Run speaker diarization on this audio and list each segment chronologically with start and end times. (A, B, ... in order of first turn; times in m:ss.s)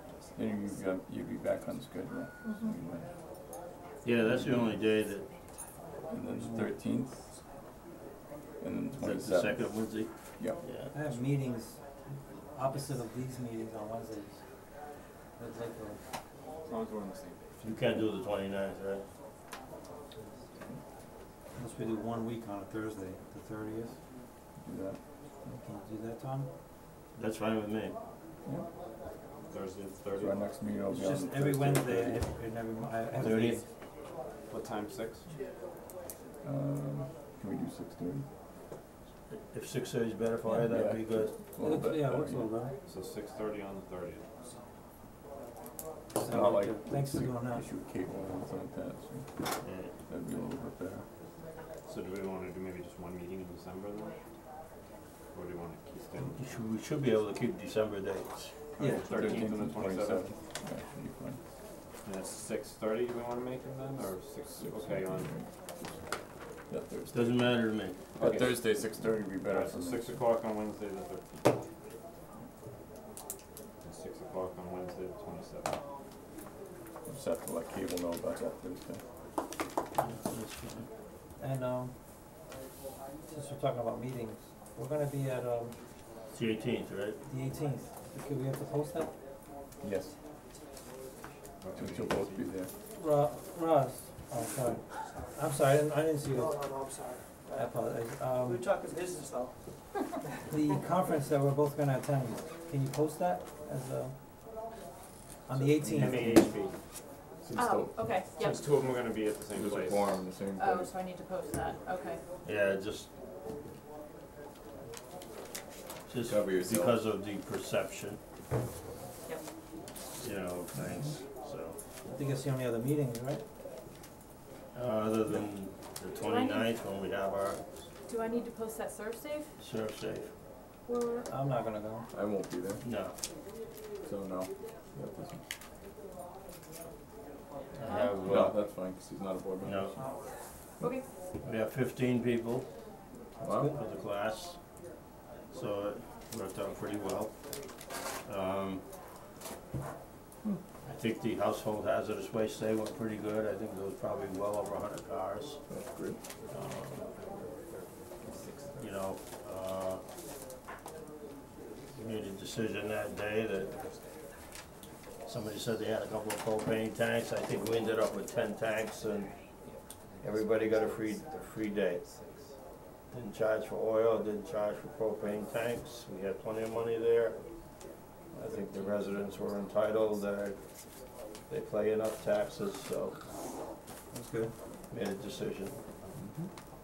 0:00.4-0:03.1 A
0:04.0-0:05.3 B
0:06.1-0:07.2 A
0:08.6-0:09.7 A
0:09.0-0:10.1 B
0:10.6-0:10.9 B
0:10.9-0:11.8 C
0:12.5-0:14.4 C
0:15.4-0:16.0 C
0:16.7-0:17.4 D
0:17.6-0:19.0 B
0:21.6-0:24.0 C
0:24.6-0:25.0 A
0:25.5-0:26.5 C
0:27.1-0:28.0 B
0:29.5-0:30.4 D
0:30.1-0:32.2 A
0:30.9-0:33.6 C
0:33.2-0:33.6 B
0:34.5-0:35.2 D
0:36.4-0:38.2 A
0:39.3-0:41.3 B
0:40.5-0:42.5 A
0:41.6-0:42.7 C
0:42.8-0:44.2 D
0:46.2-0:47.6 C
0:46.2-0:49.3 A
0:49.6-0:49.9 B
0:50.1-0:51.0 A
0:51.9-0:54.2 D
0:55.3-0:56.5 D
0:56.3-0:59.7 B
0:58.8-0:59.0 C
0:58.8-1:01.4 A
0:59.0-1:00.3 D
1:02.0-1:05.3 D
1:04.6-1:05.4 A
1:06.7-1:07.5 A
1:07.1-1:08.0 B
1:08.2-1:08.6 D
1:08.2-1:10.2 A
1:09.4-1:11.3 D
1:13.8-1:15.8 D
1:17.1-1:19.0 A
1:20.0-1:20.9 B
1:21.4-1:21.9 C
1:23.3-1:25.7 C
1:26.3-1:27.2 B
1:27.2-1:29.1 C
1:29.8-1:30.1 A
1:31.6-1:32.5 D
1:31.8-1:32.7 A
1:33.0-1:36.7 C
1:37.5-1:38.7 C
1:40.4-1:44.1 C
1:45.5-1:46.4 C
1:45.5-1:46.5 A
1:45.9-1:46.7 D
1:47.4-1:48.2 A
1:47.5-1:48.6 E
1:48.4-1:50.2 D
1:49.5-1:50.9 A
1:50.6-1:52.2 E
1:52.4-1:53.1 B
1:56.1-1:58.2 B
1:56.2-1:57.0 A
2:00.2-2:01.8 B
2:02.1-2:03.4 C
2:04.7-2:07.6 B
2:06.2-2:06.7 E
2:08.1-2:09.5 E
2:09.6-2:10.3 B
2:10.9-2:11.3 E
2:11.3-2:12.1 C
2:12.1-2:12.8 A
2:12.8-2:13.1 B
2:14.0-2:14.5 A
2:17.8-2:18.6 B
2:17.8-2:18.2 E
2:18.2-2:20.0 A
2:19.6-2:20.0 B
2:20.8-2:21.1 E
2:21.4-2:22.7 B
2:23.4-2:23.8 A
2:23.7-2:24.6 B
2:25.5-2:27.3 B
2:28.2-2:28.8 B
2:30.8-2:35.6 B
2:35.7-2:36.2 A
2:36.5-2:37.0 B
2:36.9-2:39.0 D
2:38.8-2:40.0 B
2:41.9-2:43.7 B
2:45.2-2:49.3 B
2:49.7-2:52.5 D
2:50.2-2:52.0 B
2:53.1-2:57.4 B
2:58.3-3:00.6 B
3:01.5-3:03.2 B
3:04.1-3:04.5 C
3:04.9-3:05.8 B
3:06.2-3:06.5 A